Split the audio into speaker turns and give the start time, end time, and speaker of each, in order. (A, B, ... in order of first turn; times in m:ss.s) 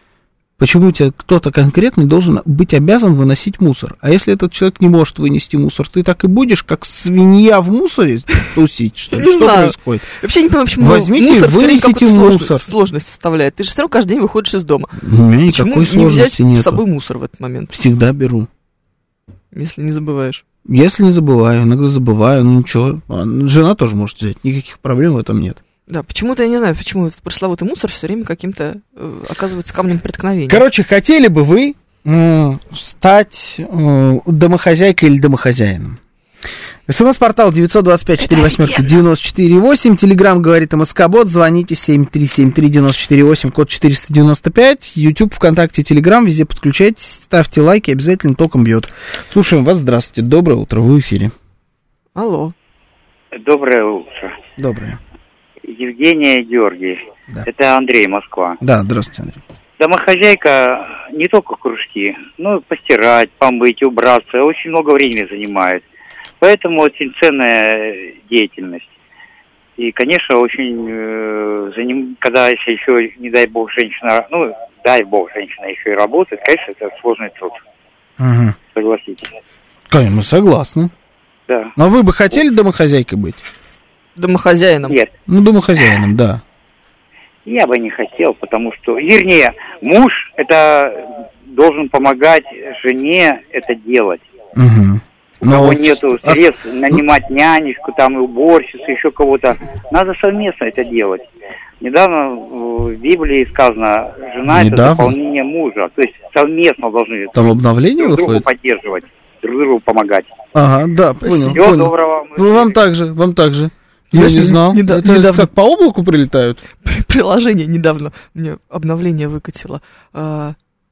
0:00.6-0:10.0 A
0:09.1-0:17.7 B
0:10.8-0:12.7 A
0:15.0-0:16.8 A
0:17.7-0:18.5 A
0:19.5-0:20.4 B
0:20.6-0:25.6 A
0:25.9-0:30.6 B
0:30.5-0:36.0 A
0:36.9-0:51.3 A
0:38.3-0:38.9 B
0:52.2-0:52.5 B
0:53.3-0:54.4 C
0:54.6-0:55.0 A
0:55.6-0:58.6 C
0:58.6-0:59.4 A
0:59.8-1:05.8 C
1:06.4-1:08.9 C
1:09.8-1:17.6 C
1:18.2-1:18.6 A
1:18.7-1:19.3 C
1:19.9-1:20.9 A
1:21.8-1:23.4 A
1:24.2-1:25.0 B
1:25.3-1:26.4 A
1:27.4-1:34.2 C
1:34.6-1:37.0 A
1:35.4-1:41.2 C
1:41.8-1:50.3 C
1:44.4-1:45.2 A
1:47.3-1:48.4 A
1:50.5-1:56.6 A
1:51.3-1:52.8 C
1:54.1-1:55.5 B
1:56.8-2:00.6 B